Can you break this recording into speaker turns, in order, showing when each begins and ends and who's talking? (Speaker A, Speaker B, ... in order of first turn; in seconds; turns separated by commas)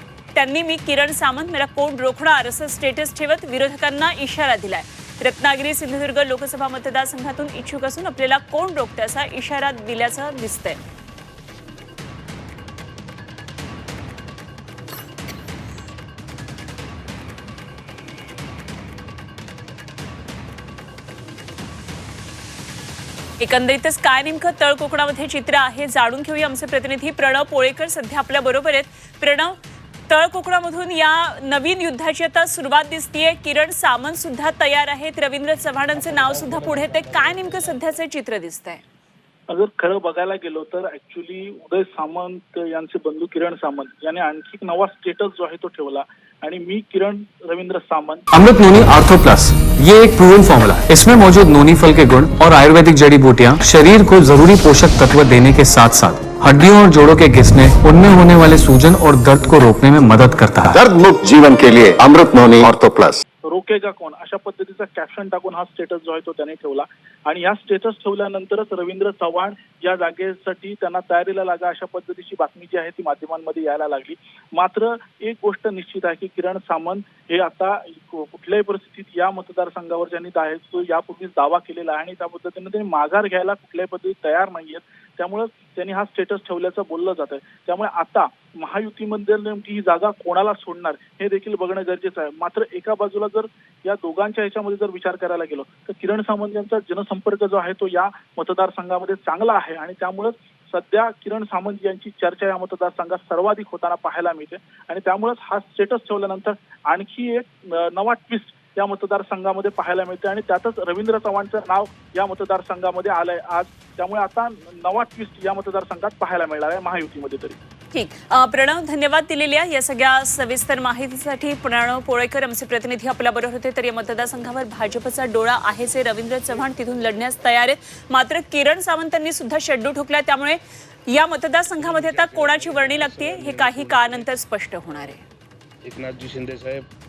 Speaker A: 0.3-10.8, Speaker A: 23.4-29.6, Speaker A: 30.1-38.8, Speaker B: 39.5-48.2, Speaker C: 48.3-60.8, Speaker D: 60.6-63.2, Speaker B: 63.5-117.6, Speaker A: 117.9-135.2, Speaker E: 131.8-134.3, Speaker E: 135.8-136.9